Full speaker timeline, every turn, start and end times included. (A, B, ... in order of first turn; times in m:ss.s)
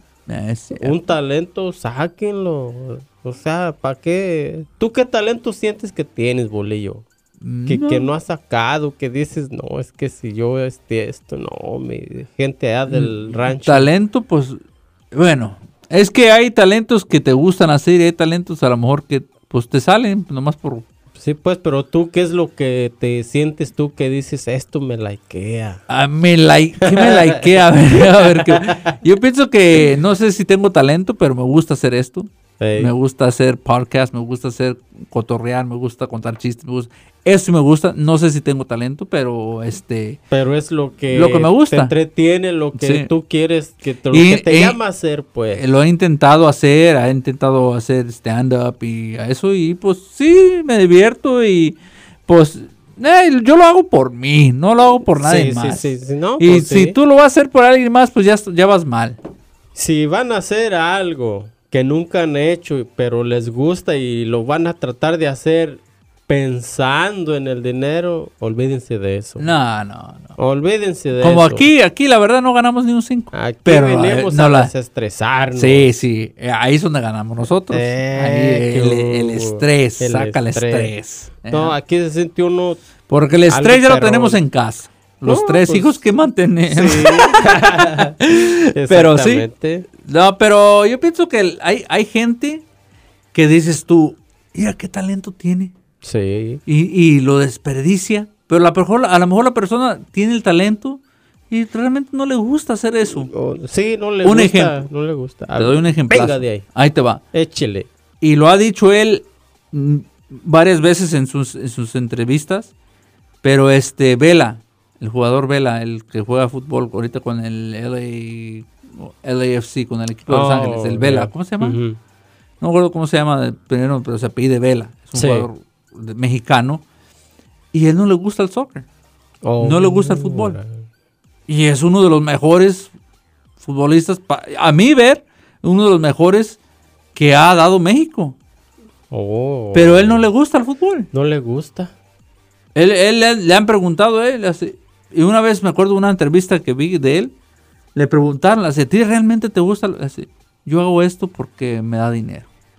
0:00.3-0:01.0 A
0:00.8-0:07.0 B
0:07.4-0:08.1 A
0:07.7-0:13.9 B
0:12.9-0:14.6 A
0:15.1-0:20.9 A
0:21.2-0:25.8 B
0:25.9-0:40.2 A
0:26.8-0:28.7 B
0:32.6-0:32.9 B
0:40.3-0:45.6 B
0:41.1-0:41.9 A
0:42.8-0:43.1 A
0:44.1-0:44.8 A
0:45.5-0:59.2 A
0:55.0-0:57.0 B
0:59.8-1:09.5 B
1:09.4-1:10.4 A
1:10.4-1:11.7 B
1:11.2-1:14.7 A
1:13.3-1:15.9 B
1:15.6-1:21.8 A
1:17.7-1:20.9 B
1:21.5-1:22.8 B
1:23.1-1:29.5 A
1:23.5-1:24.4 B
1:25.2-1:26.1 B
1:26.7-1:28.2 B
1:28.7-1:29.9 B
1:30.0-1:32.6 A
1:33.3-1:35.7 A
1:36.0-1:36.6 B
1:36.7-1:43.3 A
1:43.1-1:46.7 B
1:44.2-1:44.8 A
1:45.6-1:47.2 A
1:47.3-1:47.9 B
1:48.2-1:52.7 A
1:53.4-2:01.8 A
2:00.3-2:02.0 B
2:02.6-2:06.8 A
2:05.2-2:05.5 B
2:07.7-2:08.9 A
2:09.4-2:10.8 B
2:09.6-2:10.6 A
2:11.5-2:12.9 A
2:13.6-2:16.6 A
2:17.2-2:18.4 A
2:19.1-2:20.3 B
2:19.7-2:21.1 A
2:21.1-2:21.9 B
2:22.8-2:27.3 A
2:28.0-2:32.5 A